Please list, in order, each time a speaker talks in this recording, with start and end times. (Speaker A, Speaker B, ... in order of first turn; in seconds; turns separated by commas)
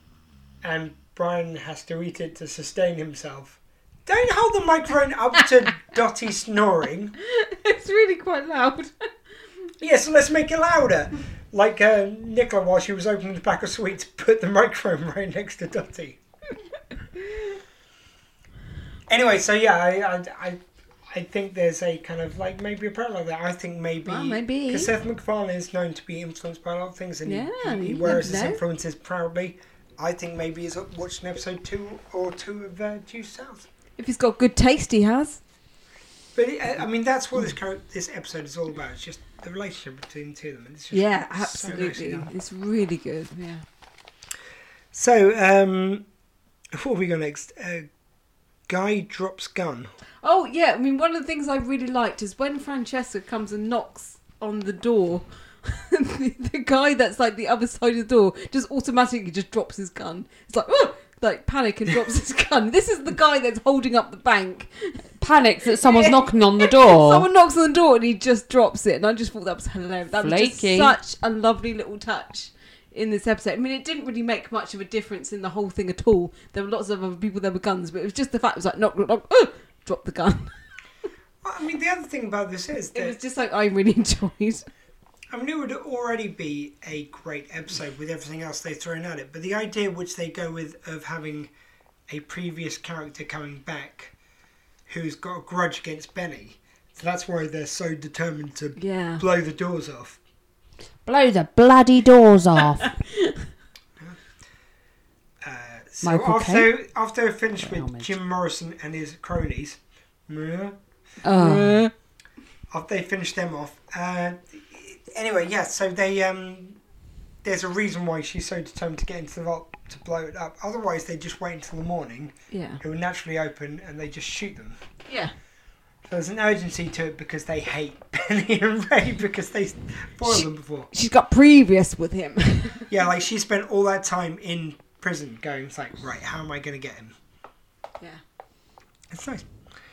Speaker A: 0.6-7.1, Speaker B: 7.2-8.9, Speaker A: 9.8-16.2, Speaker A: 19.1-33.7, Speaker B: 24.0-24.9, Speaker B: 27.2-28.6, Speaker B: 34.0-35.4, Speaker A: 36.4-42.3, Speaker B: 40.9-43.6, Speaker A: 44.9-46.1, Speaker A: 46.7-47.9, Speaker A: 48.7-49.9, Speaker B: 50.2-65.0, Speaker C: 65.2-67.3, Speaker B: 65.7-80.5, Speaker C: 70.2-70.9, Speaker A: 81.4-83.2, Speaker B: 82.9-84.7, Speaker A: 85.3-91.5, Speaker A: 92.1-94.2, Speaker A: 94.9-100.2, Speaker B: 98.8-99.2, Speaker C: 101.0-102.9, Speaker A: 105.4-110.8, Speaker C: 106.0-106.7, Speaker C: 107.6-108.1, Speaker C: 111.2-111.8, Speaker B: 111.3-111.9, Speaker A: 112.7-116.8, Speaker A: 117.4-124.8, Speaker B: 122.5-122.8, Speaker B: 125.1-125.3, Speaker A: 126.0-130.9, Speaker B: 130.2-132.9, Speaker A: 132.9-137.2, Speaker A: 139.1-139.5